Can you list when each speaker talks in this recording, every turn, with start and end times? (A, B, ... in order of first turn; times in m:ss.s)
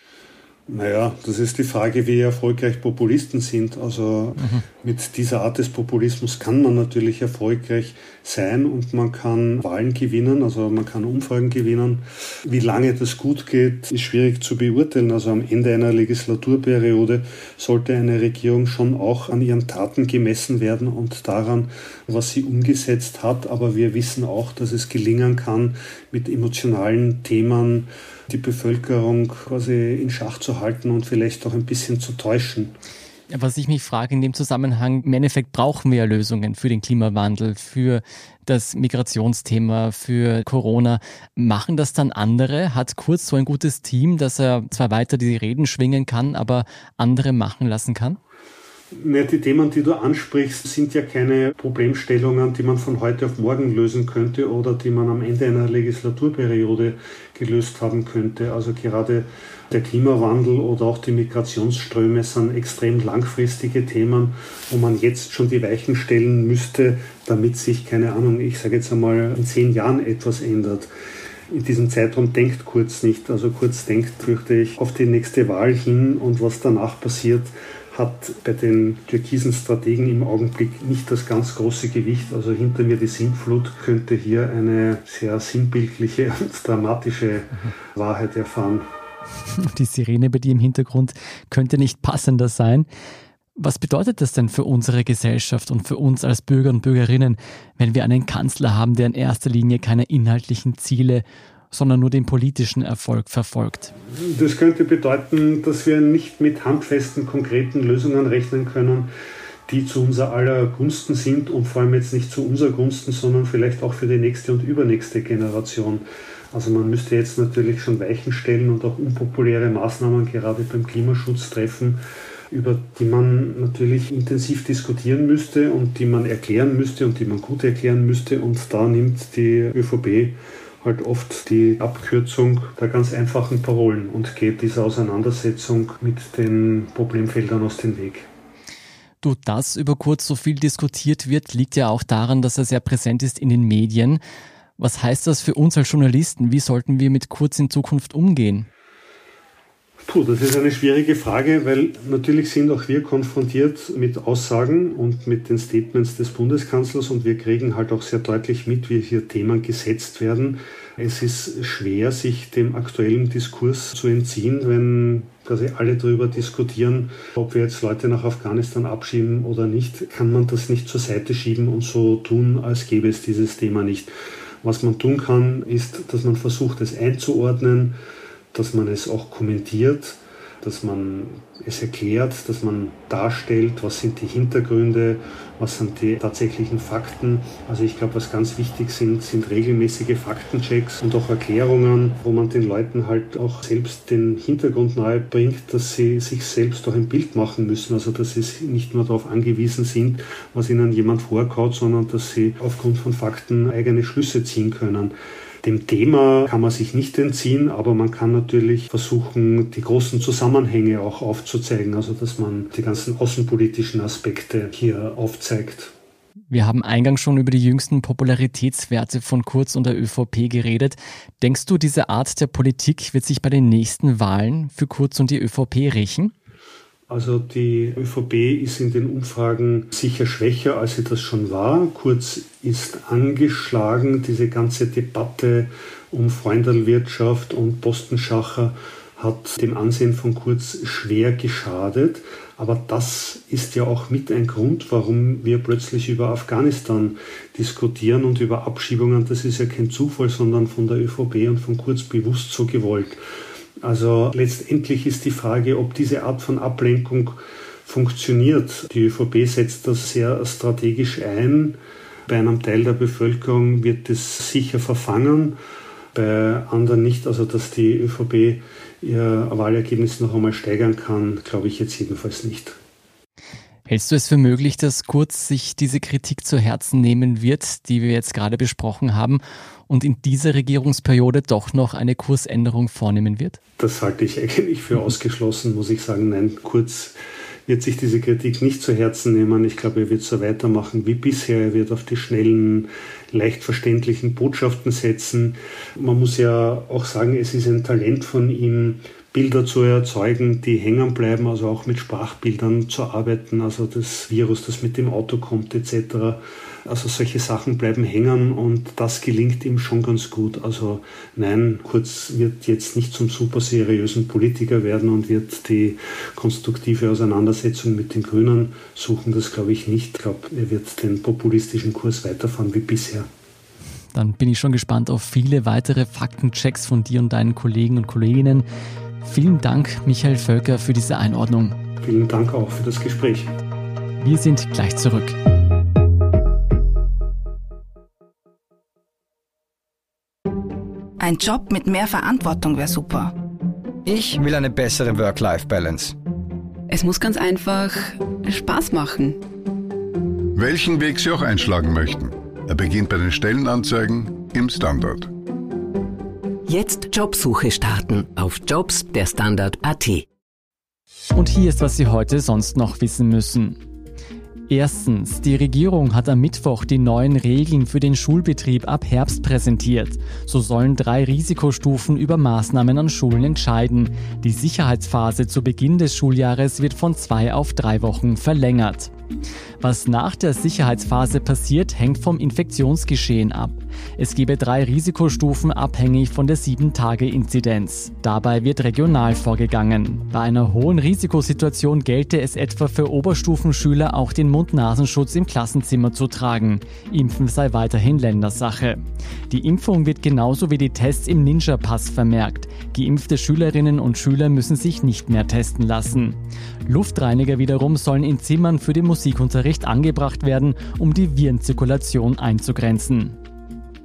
0:00.7-0:32.8 A
0:33.3-0:48.2 B
0:48.9-1:10.9 A
1:11.5-1:28.9 A
1:29.5-1:32.9 B
1:33.6-1:43.9 B
1:44.1-1:49.1 A
1:49.7-2:18.3 A
2:19.2-2:24.2 B
2:24.8-2:28.7 B
2:30.0-2:58.0 A
2:58.5-3:35.9 A
3:36.5-3:46.3 B
3:47.1-4:13.2 A
4:13.8-4:25.6 A
4:26.1-4:32.8 A
4:33.9-4:43.6 B
4:43.8-4:47.2 A
4:47.7-5:23.3 A
5:24.1-5:28.6 B
5:29.2-5:31.8 B
5:32.0-5:33.5 A
5:34.2-5:35.4 B
5:41.2-5:43.3 C
5:44.0-5:46.2 D
5:46.9-5:49.4 E
5:50.6-5:55.3 F
5:56.7-6:00.3 G
6:01.3-6:03.8 B
6:04.7-6:19.1 B
6:19.8-6:53.4 B